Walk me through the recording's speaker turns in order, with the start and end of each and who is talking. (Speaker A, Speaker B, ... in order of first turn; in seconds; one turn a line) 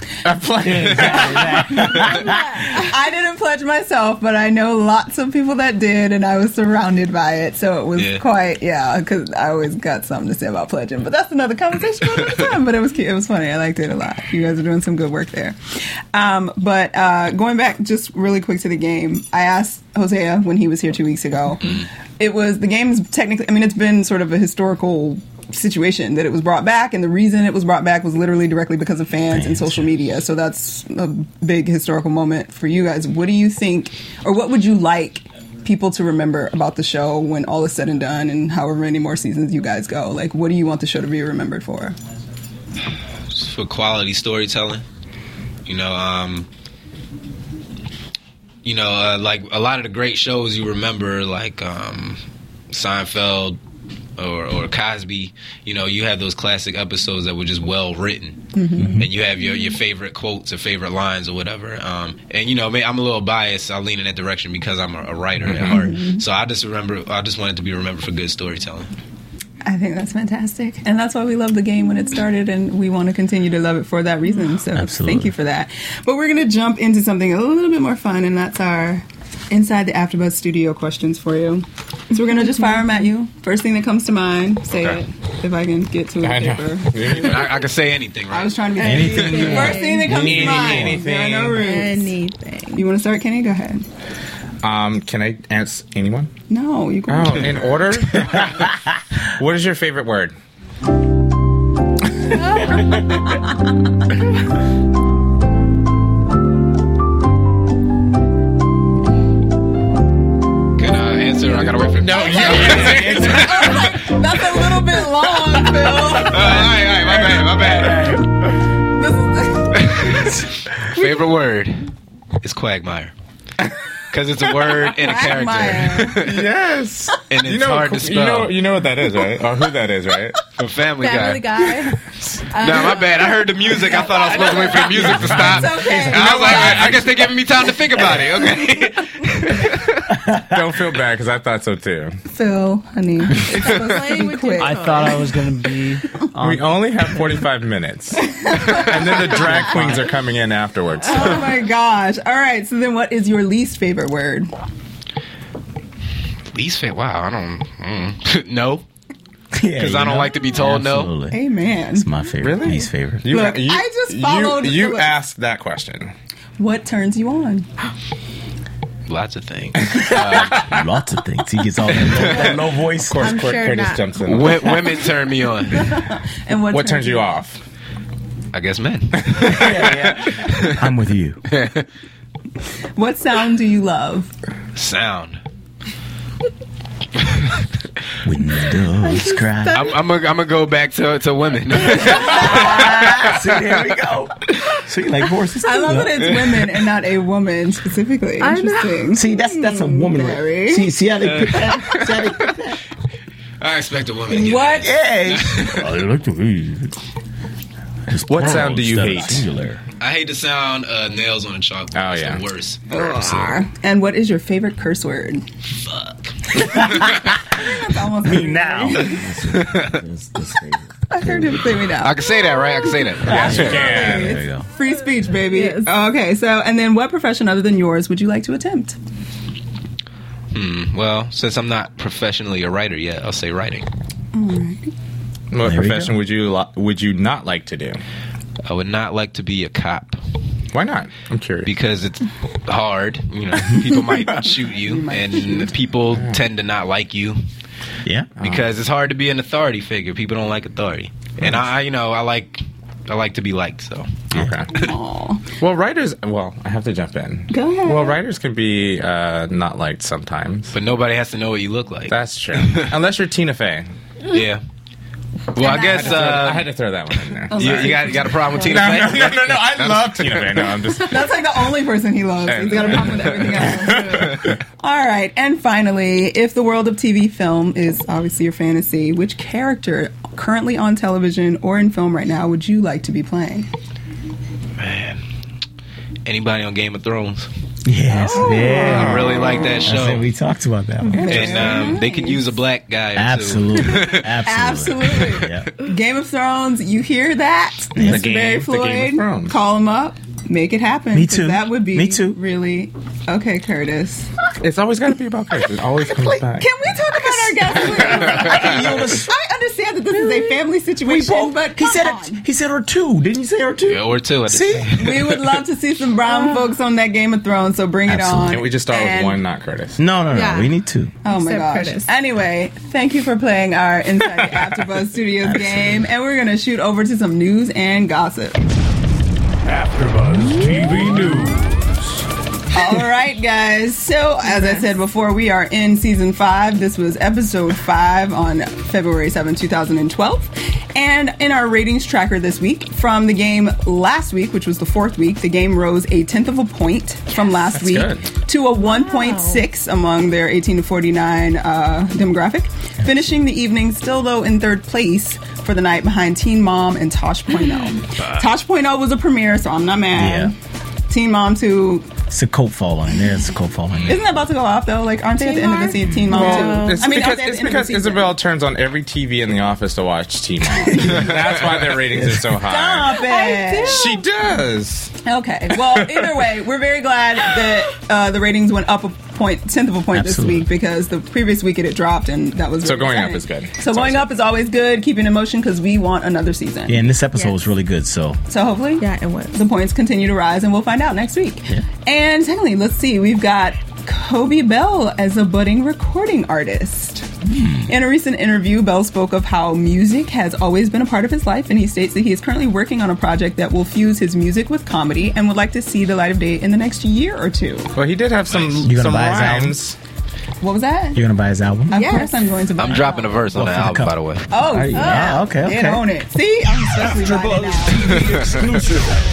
Speaker A: 0.2-2.0
Speaker B: 0.6-2.5
Speaker C: 2.0-2.9
Speaker D: 2.6-15.6
Speaker E: 8.0-8.2
Speaker D: 16.1-42.0
Speaker B: 29.3-30.0
Speaker E: 43.3-44.8
Speaker E: 45.6-46.5
Speaker E: 48.6-52.2
Speaker E: 52.7-53.6
Speaker E: 54.2-68.9
Speaker D: 58.5-59.0
Speaker B: 58.8-59.1
Speaker D: 65.7-66.2
Speaker D: 69.6-87.4
Speaker B: 74.7-75.3
Speaker C: 82.5-82.8
Speaker A: 84.7-85.0
Speaker A: 86.2-87.6
Speaker E: 87.2-89.6
Speaker D: 88.3-92.1
Speaker B: 88.8-91.0
Speaker C: 88.9-90.2
Speaker A: 90.1-91.6
Speaker C: 91.6-92.8
Speaker D: 92.7-93.8
Speaker A: 94.6-96.3
Speaker D: 96.5-97.8
Speaker A: 97.1-100.3
Speaker C: 102.6-103.0
Speaker E: 110.8-113.9
Speaker A: 112.0-113.4
Speaker B: 112.1-113.7
Speaker D: 112.1-116.7
Speaker E: 116.2-118.2
Speaker B: 117.0-118.3
Speaker D: 119.0-119.9
Speaker E: 119.7-121.9
Speaker E: 122.4-123.1
Speaker E: 124.1-126.5
Speaker D: 125.0-126.2
Speaker A: 126.2-130.4
Speaker E: 127.3-128.5
Speaker E: 130.5-131.7
Speaker C: 131.0-135.0
Speaker E: 132.6-140.1
Speaker D: 134.0-137.1
Speaker A: 135.1-137.1
Speaker B: 140.1-140.7
Speaker A: 140.4-142.2
Speaker D: 142.3-145.3
Speaker C: 143.3-145.4
Speaker F: 144.6-146.7
Speaker A: 146.4-151.4
Speaker D: 148.3-149.7
Speaker D: 151.1-154.5
Speaker E: 156.5-158.8
Speaker B: 159.5-161.4
Speaker E: 159.8-161.1
Speaker D: 161.3-162.1
Speaker B: 161.9-163.3
Speaker A: 162.4-166.1
Speaker D: 163.3-165.1
Speaker D: 166.6-167.7
Speaker E: 169.1-170.8
Speaker B: 170.1-173.4
Speaker E: 171.9-172.5
Speaker A: 173.1-174.8
Speaker C: 173.2-174.1
Speaker E: 174.2-176.0
Speaker D: 175.7-177.4
Speaker A: 176.7-177.6
Speaker E: 178.5-180.8
Speaker B: 179.5-181.4
Speaker E: 181.5-181.8
Speaker D: 183.0-184.3
Speaker E: 184.7-185.4
Speaker E: 187.2-187.6
Speaker B: 188.2-189.9
Speaker C: 189.0-189.9
Speaker E: 189.7-193.8
Speaker B: 191.8-196.5
Speaker D: 195.6-200.9
Speaker C: 198.4-199.2
Speaker B: 199.1-202.8
Speaker E: 201.2-202.3
Speaker E: 203.6-206.0
Speaker B: 204.4-206.9
Speaker B: 208.1-209.8
Speaker A: 208.3-209.5
Speaker E: 210.0-212.8
Speaker A: 211.9-212.4
Speaker D: 212.9-215.4
Speaker B: 213.2-213.5
Speaker E: 215.8-217.2
Speaker B: 216.6-221.9
Speaker D: 217.4-219.2
Speaker E: 219.5-220.0
Speaker D: 221.1-222.3
Speaker E: 222.0-223.8
Speaker B: 223.2-224.7
Speaker D: 223.3-228.9
Speaker A: 223.3-224.4
Speaker C: 225.4-225.9
Speaker E: 230.5-233.9
Speaker D: 234.3-234.9
Speaker A: 235.5-238.0
Speaker B: 235.6-236.1
Speaker E: 238.6-240.2
Speaker A: 240.7-241.7
Speaker E: 241.6-247.4
Speaker D: 244.4-245.7
Speaker A: 246.1-246.4
Speaker E: 248.4-254.2
Speaker A: 254.3-254.8
Speaker D: 254.7-255.5
Speaker A: 255.6-260.7
Speaker D: 257.5-258.2
Speaker E: 260.7-262.9
Speaker A: 262.1-263.9
Speaker E: 264.3-264.6
Speaker E: 265.5-266.7
Speaker D: 265.6-266.5
Speaker A: 265.6-271.4
Speaker D: 267.5-268.5
Speaker E: 267.5-270.7
Speaker D: 270.9-283.7
Speaker A: 272.4-274.6
Speaker E: 274.1-274.6
Speaker E: 284.8-285.2
Speaker E: 286.2-287.5
Speaker B: 287.8-292.0
Speaker D: 288.1-289.2
Speaker C: 288.5-288.7
Speaker E: 288.8-290.2
Speaker D: 291.1-292.5
Speaker E: 291.3-294.3
Speaker B: 293.1-295.7
Speaker D: 294.1-304.3
Speaker B: 297.9-298.3
Speaker A: 298.0-299.6
Speaker B: 301.1-302.4
Speaker A: 304.6-306.7
Speaker D: 306.6-312.4
Speaker B: 307.4-309.3
Speaker B: 311.0-314.9
Speaker E: 313.9-315.6
Speaker D: 314.9-319.4
Speaker C: 316.3-316.6
Speaker B: 318.1-318.6
Speaker A: 318.5-320.0
Speaker B: 320.0-321.1
Speaker C: 320.3-322.1
Speaker D: 321.2-328.6
Speaker B: 325.4-326.0
Speaker G: 329.6-332.0
Speaker D: 332.7-360.6
Speaker C: 334.5-334.8
Speaker A: 347.7-348.3
Speaker C: 348.8-349.6
Speaker E: 358.2-358.5
Speaker B: 360.1-360.5
Speaker D: 361.1-362.1
Speaker B: 362.3-364.2
Speaker E: 363.9-364.2
Speaker D: 364.1-368.4
Speaker C: 365.4-367.1
Speaker B: 366.0-366.6
Speaker A: 366.3-373.2
Speaker E: 371.3-371.7
Speaker B: 372.1-372.5
Speaker D: 372.6-374.2
Speaker C: 373.1-374.2
Speaker A: 373.8-375.1
Speaker D: 375.2-387.0
Speaker A: 375.9-376.2
Speaker B: 380.1-380.7
Speaker A: 382.8-384.2
Speaker B: 386.9-388.4
Speaker D: 388.5-407.9
Speaker C: 389.0-389.6
Speaker B: 397.5-397.9
Speaker A: 407.9-410.0
Speaker E: 408.5-408.8
Speaker B: 408.8-409.8
Speaker D: 410.6-411.2
Speaker B: 411.1-412.1
Speaker D: 411.9-413.5
Speaker C: 411.9-412.4
Speaker E: 412.8-414.5
Speaker B: 413.5-416.1
Speaker D: 414.5-418.4
Speaker C: 414.9-415.4
Speaker B: 417.0-419.1
Speaker E: 418.0-418.7
Speaker G: 418.4-418.8